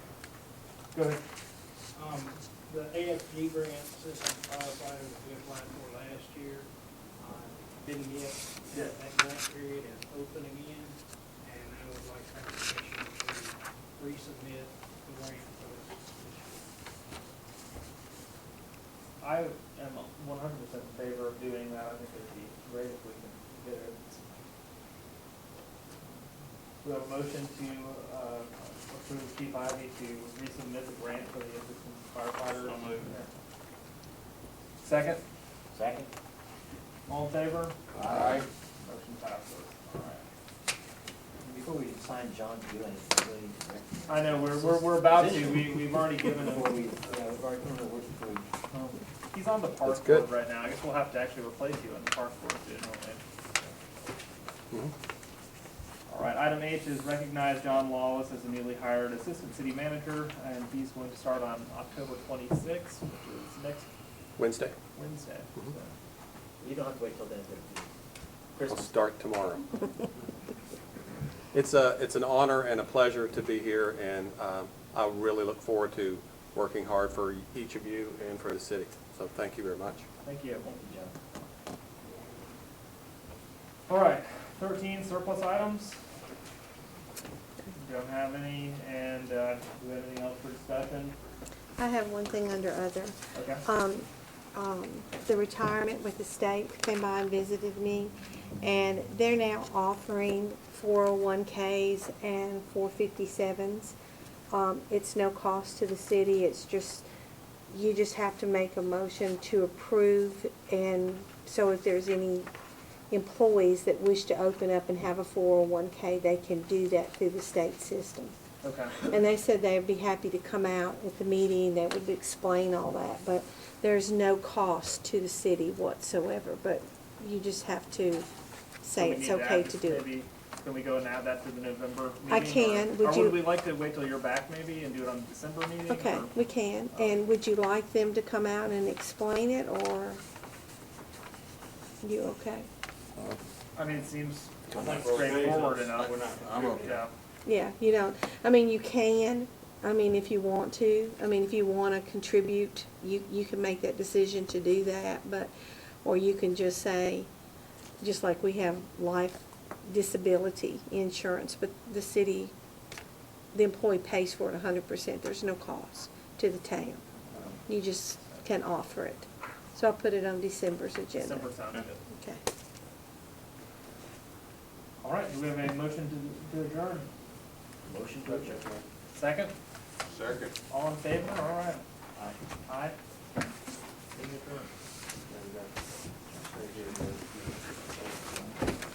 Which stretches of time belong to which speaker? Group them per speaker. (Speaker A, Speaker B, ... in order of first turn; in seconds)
Speaker A: 0.9-1.2, 19.2-24.4, 26.8-33.3, 34.8-35.2, 37.1-37.8, 38.8-40.2, 44.1-46.9, 48.7-53.2, 56.1-63.9, 64.9-65.9, 80.2-80.7, 83.9-86.0, 87.8-91.1, 93.3-93.6, 118.6-119.0, 129.0-136.3, 143.8-147.1, 167.3-167.6, 171.2-172.0, 175.0-177.1, 179.1-179.5, 180.7-181.8, 182.7-182.9, 184.1-184.7
Speaker B: 1.9-16.7
Speaker C: 32.6-33.1, 38.0-38.4, 49.8-50.2, 64.4-64.7, 68.7-69.6, 71.5-80.0, 144.8-147.0, 178.2-178.8, 180.1-180.5, 185.3-185.7, 186.4-188.2
Speaker D: 35.7-36.1, 38.0-38.5, 41.4-48.5, 66.6-67.9, 68.5-69.0, 80.6-81.1, 144.7-146.9, 177.8-178.7, 182.1-182.4, 186.4-187.0
Speaker E: 91.8-104.0, 104.5-107.0, 107.7-112.5, 113.1-118.3, 119.0-128.3, 128.8-130.1, 132.3-133.5, 135.9-140.2, 142.0-142.7, 147.4-155.5, 156.0-157.3, 158.0-162.5, 163.5-167.0, 167.7-171.5, 172.1-172.4